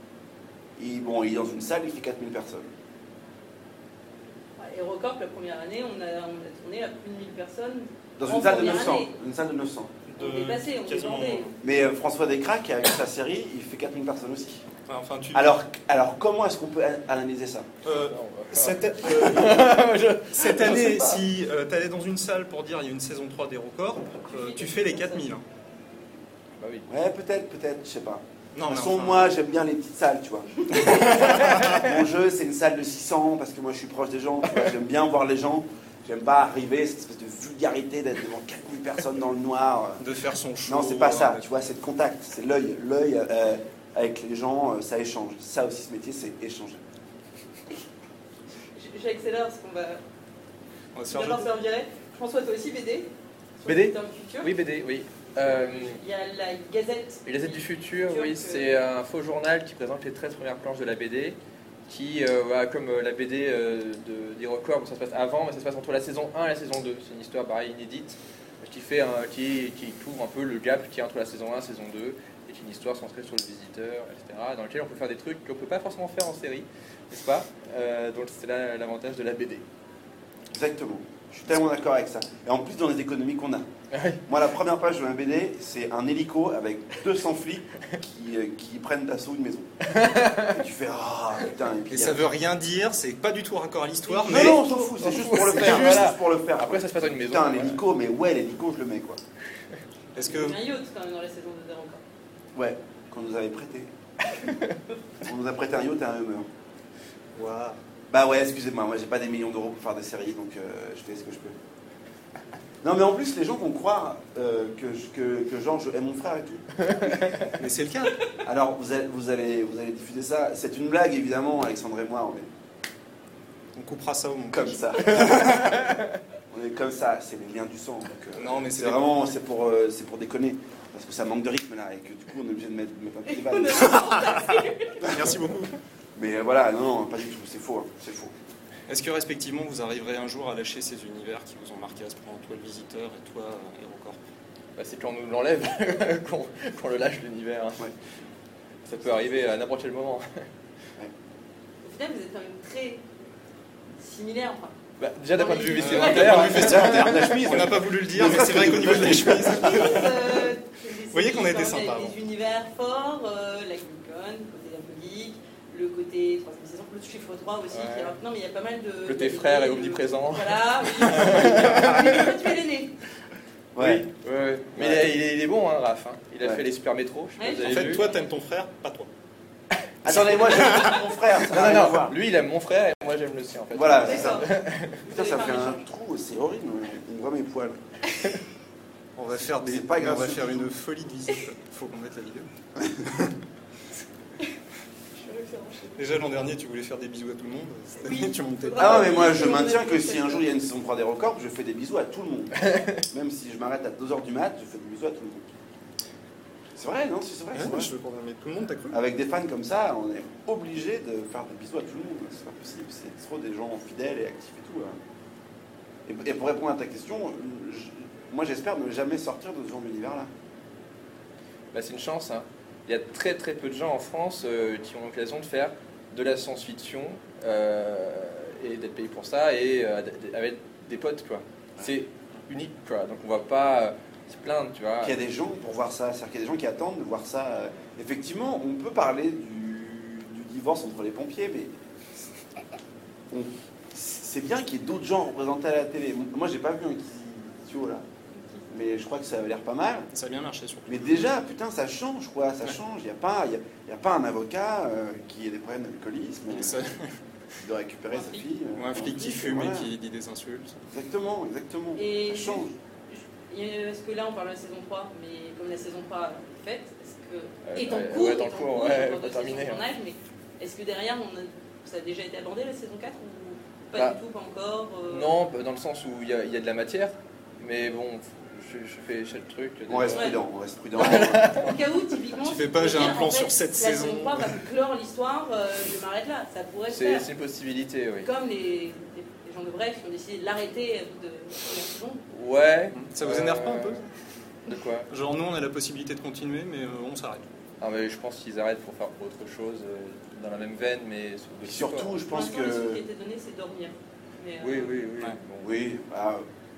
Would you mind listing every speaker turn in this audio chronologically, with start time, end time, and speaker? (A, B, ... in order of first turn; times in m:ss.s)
0:00.8-0:02.7 A
0:04.6-0:09.1 B
0:08.2-0:10.0 A
0:10.1-0:11.5 C
0:10.2-0:11.5 B
0:11.6-0:14.7 A
0:14.9-0:15.6 C
0:15.3-0:17.7 A
0:17.8-0:25.4 C
0:17.9-0:21.2 D
0:24.2-0:25.2 B
0:26.6-0:26.9 D
0:26.9-0:40.0 A
0:28.6-0:29.3 C
0:30.8-0:31.8 C
0:40.0-0:41.5 C
0:40.7-0:46.8 A
0:48.8-0:50.0 B
0:51.0-0:51.5 C
0:51.1-0:54.5 B
0:53.7-0:56.0 D
0:55.4-0:58.7 B
0:57.3-1:19.6 D
1:20.5-1:23.7 A
1:23.9-1:24.2 D
1:24.3-1:32.2 A
1:29.8-1:30.6 D
1:31.9-1:34.8 C
1:34.2-1:34.6 B
1:34.2-1:39.2 A
1:35.0-1:37.8 D
1:40.2-1:40.6 C
1:40.2-1:42.0 B
1:42.6-1:43.9 A
1:44.4-1:44.8 D
1:45.2-1:46.5 A
1:47.4-1:47.8 C
1:48.1-1:51.6 A
1:52.8-1:57.2 A
1:56.9-1:57.5 D
1:57.5-1:58.2 C
1:58.4-2:02.5 A
2:03.8-2:05.8 C
2:04.5-2:06.0 A
2:06.5-2:14.1 A
2:08.4-2:09.0 C
2:13.3-2:15.2 B
2:13.9-2:15.7 C
2:16.2-2:18.3 A
2:18.9-2:24.2 C
2:24.8-2:27.9 D
2:28.8-2:30.5 D
2:31.8-2:33.0 B
2:34.0-2:34.8 B
2:35.0-2:37.3 D
2:35.3-2:36.7 B
2:35.8-2:40.5 C
2:36.0-2:40.1 A
2:39.4-2:53.0 B
2:41.1-2:42.2 C
2:47.7-2:48.2 D
2:49.0-2:52.3 D
2:53.7-2:54.1 A
2:53.8-2:58.1 D
2:54.8-2:55.1 A
2:57.4-2:58.2 B
2:57.6-2:59.1 C
3:00.0-3:02.2 A
3:00.1-3:05.0 D
3:03.7-3:04.5 A
3:04.0-3:04.5 B
3:05.0-3:05.8 B
3:05.1-3:07.8 A
3:09.2-3:12.5 C
3:09.6-3:10.7 A
3:12.8-3:13.1 A
3:13.1-3:13.3 C
3:15.2-3:16.2 B
3:16.0-3:19.4 C
3:18.0-3:20.4 B
3:18.8-3:25.5 A
3:22.7-3:23.0 D
3:26.8-3:27.9 A
3:27.5-3:29.0 C
3:28.9-3:35.0 A
3:36.1-3:40.3 A
3:41.7-3:55.2 D
3:55.0-4:01.7 A
4:03.3-4:08.0 A
4:08.3-4:08.7 B
4:08.7-4:10.1 A
4:10.1-4:11.2 C
4:10.9-4:16.8 A
4:16.5-4:17.2 C
4:17.6-4:19.9 A
4:18.1-4:18.4 B
4:18.8-4:20.8 C
4:20.9-4:22.7 A
4:22.0-4:35.4 B
4:27.6-4:29.8 D
4:34.0-4:34.2 D
4:35.1-4:40.4 D
4:39.9-4:41.6 A
4:40.0-4:40.4 B
4:41.0-4:41.8 D
4:41.0-4:47.3 B
4:42.4-4:44.6 C
4:46.9-4:48.3 D
4:48.2-4:52.2 B
4:52.3-4:54.0 D
4:52.9-4:54.0 C
4:54.7-4:55.1 D
4:55.1-4:57.5 C
4:57.8-5:02.2 D
5:01.6-5:03.0 A
5:02.3-5:05.0 B
5:04.6-5:05.8 D
5:05.6-5:06.4 A